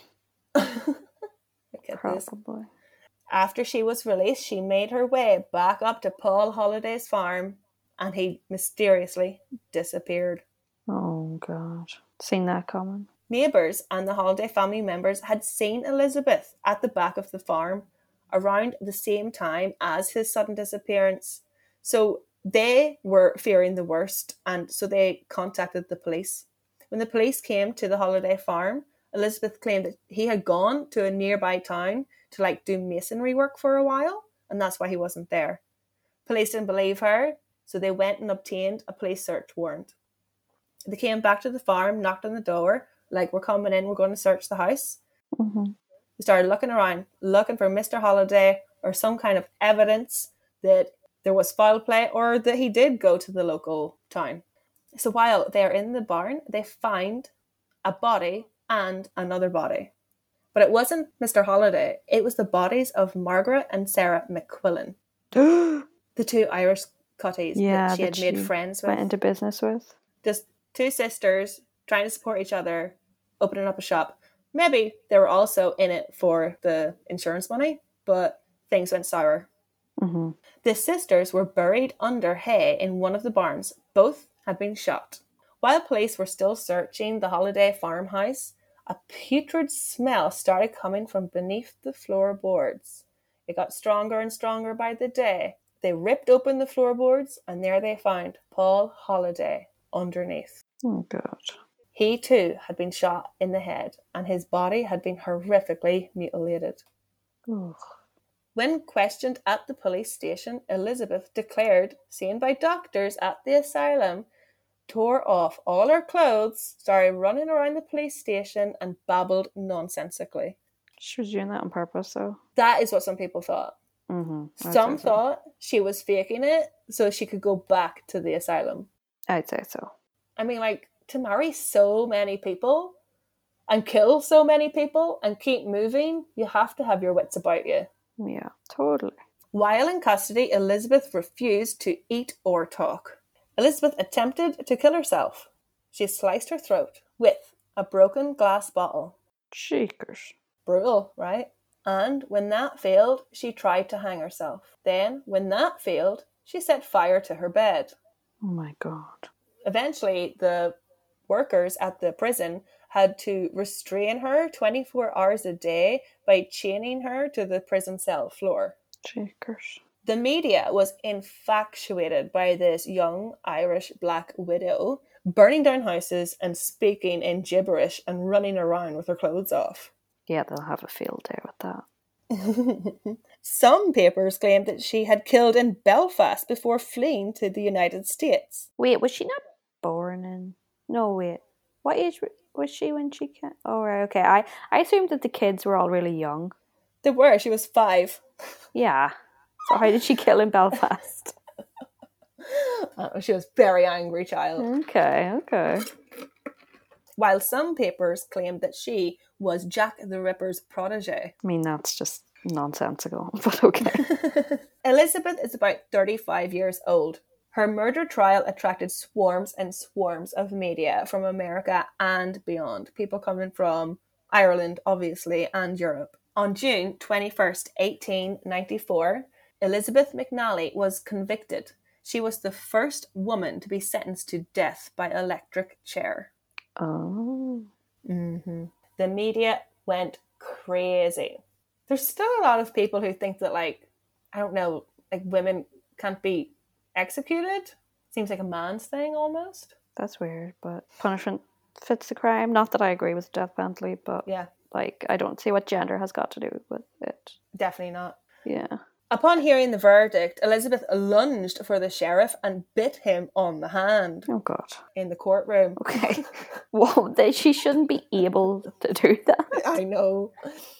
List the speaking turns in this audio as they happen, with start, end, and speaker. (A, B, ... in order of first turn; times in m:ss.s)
0:00.6-0:01.0 A
0:01.7-0:02.3 A
0:01.9-0:02.7 B
0:03.3-0:10.4 A
0:10.9-0:13.1 B
0:13.3-0:35.6 A
0:36.3-0:40.0 A
0:40.9-0:45.0 A
0:45.4-0:45.8 B
0:46.2-0:54.4 A
0:55.0-0:57.3 A
0:57.8-0:59.9 A
1:00.5-1:05.0 A
1:05.3-1:05.9 B
1:06.2-1:09.1 A
1:07.6-1:09.9 B
1:10.2-1:19.5 A
1:20.0-1:20.4 B
1:20.6-1:40.6 A
1:40.8-1:41.6 B
1:41.9-1:46.8 A
1:47.5-1:47.8 B
1:48.6-1:54.3 A
1:54.9-2:00.6 A
2:01.0-2:02.4 B
2:02.6-2:03.8 A
2:04.1-2:05.2 B
2:04.6-2:08.9 A
2:09.3-2:09.9 B
2:10.4-2:13.0 A
2:13.7-2:17.9 A
2:18.2-2:19.2 B
2:19.5-2:29.2 A
2:29.5-2:30.3 B
2:30.7-2:38.0 A
2:38.4-2:39.3 B
2:39.6-2:40.8 A
2:41.3-2:48.8 A
2:49.0-2:49.8 B
2:50.0-2:59.9 A
3:00.3-3:01.8 B
3:02.3-3:08.7 A
3:08.8-3:16.5 B
3:17.0-3:18.2 A
3:18.8-3:19.1 B
3:19.7-3:21.4 B
3:22.4-3:24.7 A
3:24.6-3:25.9 B
3:27.2-3:31.3 A
3:31.4-3:34.1 B
3:34.0-3:56.3 A
3:56.8-3:57.7 B
3:58.1-4:09.7 A
4:10.0-4:17.4 B
4:14.3-4:14.5 A
4:17.5-4:18.2 A
4:18.4-4:18.8 B
4:19.1-4:24.3 A
4:24.3-4:24.8 B
4:25.0-4:26.3 A
4:25.8-4:29.8 B
4:29.5-4:30.3 A